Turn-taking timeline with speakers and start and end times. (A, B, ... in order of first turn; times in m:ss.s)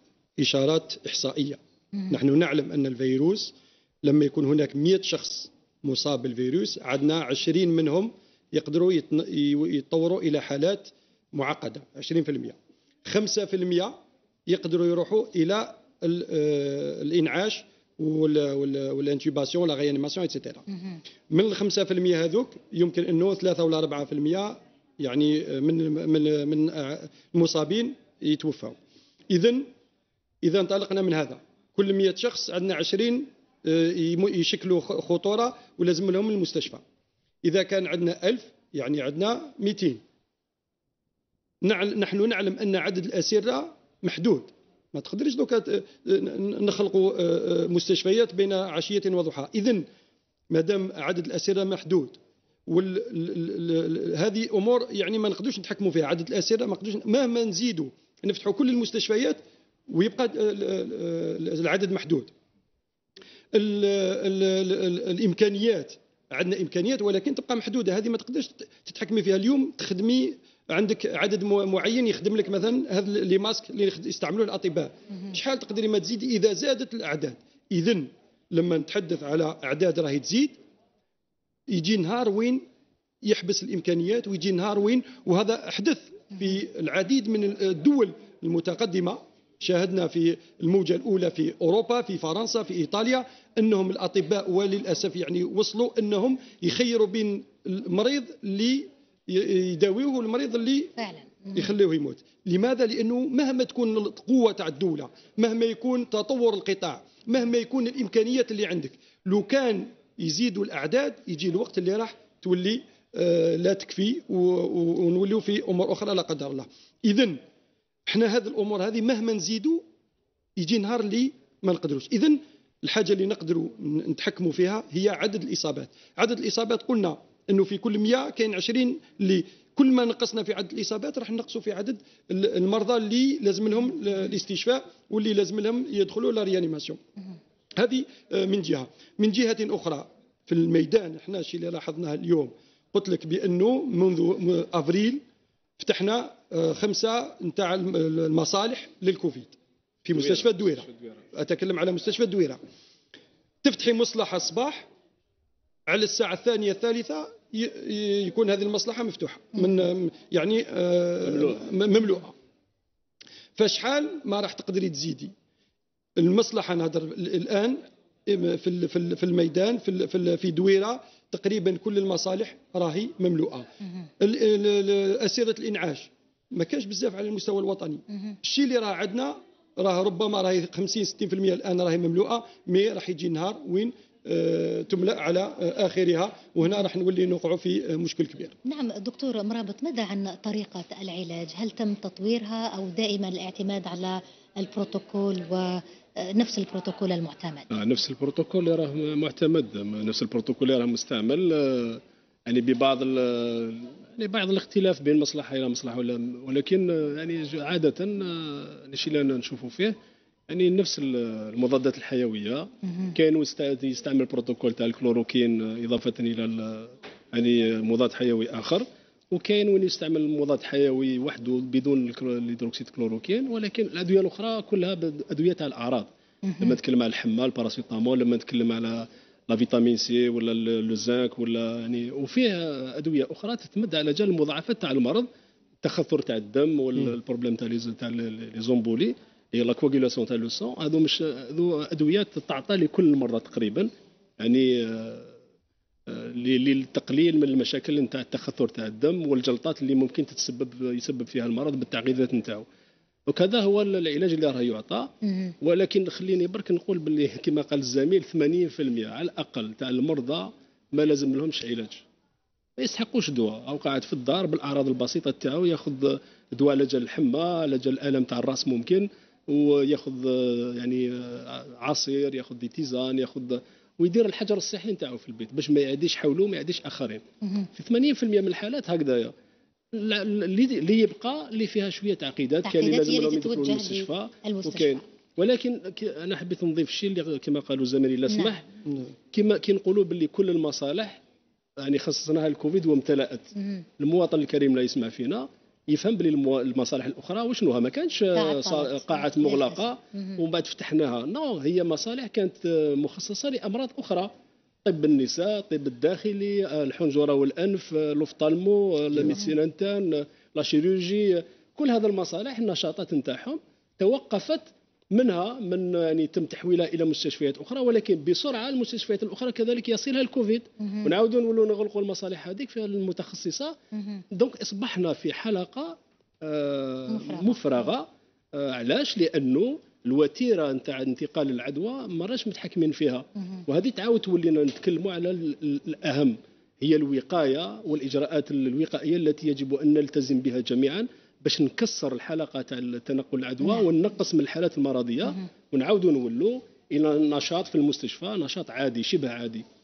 0:00.4-0:01.6 A
0:02.1-0:20.6 A
0:21.3-0:28.8 A
0:29.3-0:29.7 A
0:30.4-0:36.8 A
0:37.4-0:40.0 A
0:41.6-0:49.8 A
0:50.5-1:02.3 A
1:03.5-1:20.6 A
1:21.7-1:22.6 A
1:23.2-1:40.9 A
1:41.0-1:41.5 B
1:41.5-1:57.4 A
1:58.1-1:59.8 A
2:00.6-2:17.0 A
2:17.8-2:25.2 A
2:25.8-2:29.5 A
2:30.0-2:32.6 A
2:30.1-2:31.2 C
2:33.6-2:34.9 A
2:35.9-2:42.3 A
2:41.2-2:41.6 C
2:43.6-2:45.3 A
2:46.2-2:53.7 A
2:54.2-3:08.5 A
3:08.6-3:17.7 B
3:17.7-3:29.9 C
3:30.5-3:46.1 C
3:46.5-3:46.8 B
3:46.6-3:55.3 C
3:55.8-4:03.9 C
4:04.4-4:05.3 C
4:06.1-4:12.6 C
4:13.3-4:15.1 C
4:15.6-4:22.0 C
4:22.8-4:37.2 C
4:37.8-4:39.3 C
4:39.9-4:48.6 C
4:42.6-4:45.0 B
4:48.3-4:48.6 B
4:49.3-4:51.2 C
4:51.8-5:04.3 C
4:58.4-5:00.4 B
5:04.8-5:23.8 C
5:24.3-5:49.6 C
5:27.1-5:27.8 B
5:43.6-5:43.9 B